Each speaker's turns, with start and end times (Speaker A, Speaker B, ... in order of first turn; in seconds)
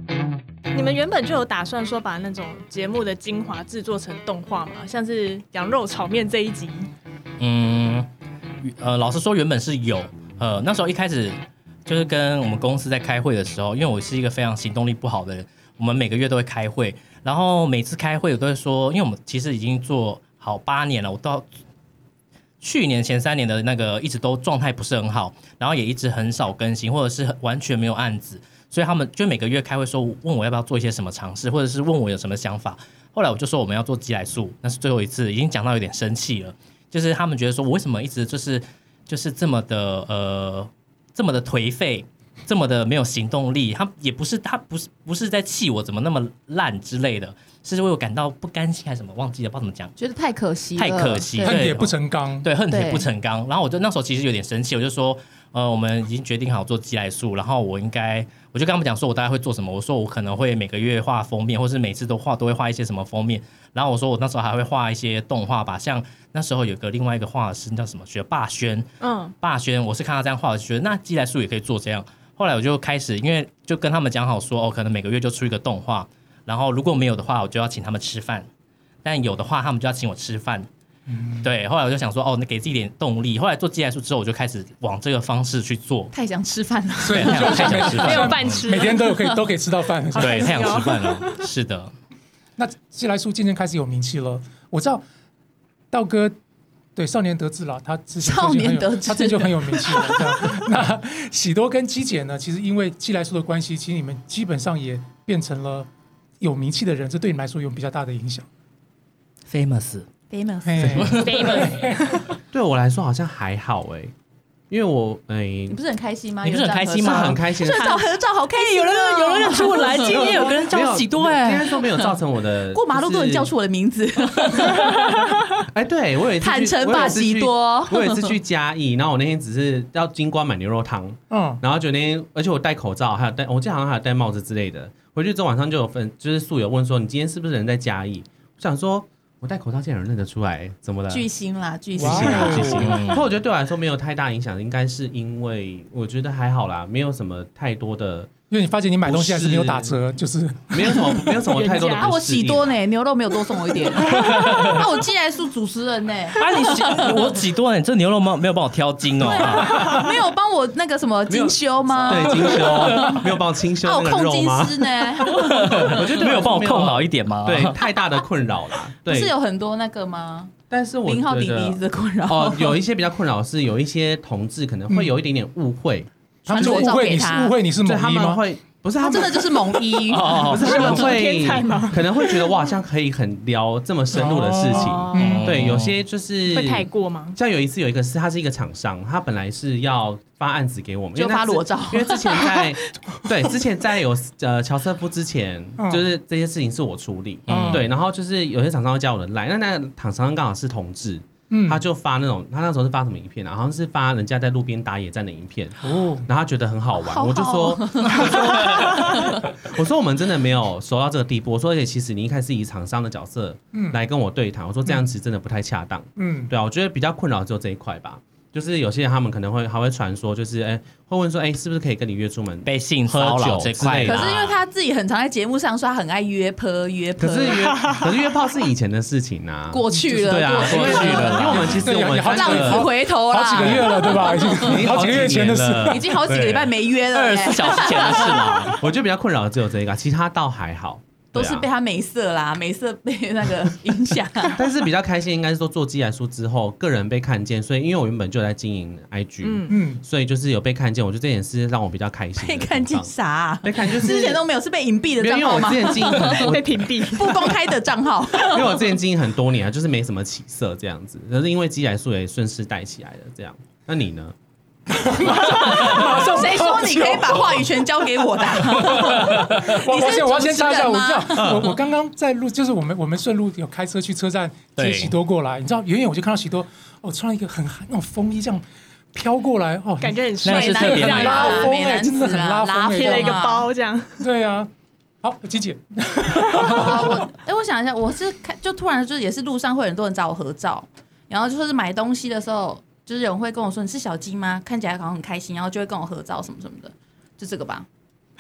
Speaker A: 0.7-6.9, 69.0-69.3, 87.9-89.1, 90.2-91.4, 111.2-112.4, 151.4-152.1, 154.2-154.6, 180.6-182.5, 184.7-185.7, 186.5-187.4, 227.8-228.0, 249.4-249.8, 256.1-257.4, 280.0-281.8, 282.9-284.2
Speaker B: 7.4-8.1, 8.6-21.5, 22.6-49.9, 50.8-68.9, 69.4-78.5, 79.0-80.7, 81.4-86.1, 87.1-88.6, 90.1-91.9, 109.5-110.1, 110.9-111.8, 116.4-118.0, 118.6-121.8, 124.6-125.0, 142.8-143.2, 154.0-154.8, 156.3-159.9, 162.2-163.2, 165.4-167.8, 180.1-181.2, 185.1-186.0, 197.5-197.9, 222.7-224.6, 230.5-231.8, 236.2-238.8, 265.8-266.1, 269.0-269.6, 274.8-275.1, 280.4-281.6
Speaker C: 50.0-51.6, 52.7-53.1, 86.1-88.2, 98.2-100.6, 110.3-111.7, 115.7-120.5, 121.9-122.2, 122.7-125.3, 126.4-128.3, 141.1-143.0, 151.9-157.2, 159.2-163.3, 163.8-165.9, 169.1-170.5, 171.1-172.8, 176.5-177.6, 179.0-180.8, 191.2-192.6, 206.9-209.4, 224.1-227.7, 229.7-234.9, 235.8-238.8, 241.3-244.6, 252.4-258.9, 265.6-271.7, 280.5-283.7, 286.6-297.9
Speaker D: 51.4-52.5, 81.1-81.5, 87.0-90.8, 92.6-95.0, 95.9-96.3, 97.0-105.9, 106.4-108.5, 110.6-112.2, 131.3-131.6, 142.0-143.0, 148.5-151.4, 174.9-175.2, 176.4-178.4, 184.1-185.4, 195.8-196.0, 197.5-197.9, 201.5-201.8, 205.8-206.3, 213.7-214.0, 216.2-216.5, 231.5-236.1, 249.7-250.0, 264.9-267.8, 268.4-283.4, 284.2-284.7, 285.2-287.3
Speaker E: 112.5-114.1, 114.7-115.8, 117.0-118.0, 119.9-123.5, 125.7-141.3, 141.9-148.3, 149.0-150.0, 150.7-152.7, 159.4-160.1, 161.3-169.3, 170.7-177.0, 177.8-224.3, 227.2-232.9, 234.5-236.2, 238.8-241.7, 244.5-253.1, 253.6-254.4, 255.2-257.1, 258.4-264.4, 271.4-271.7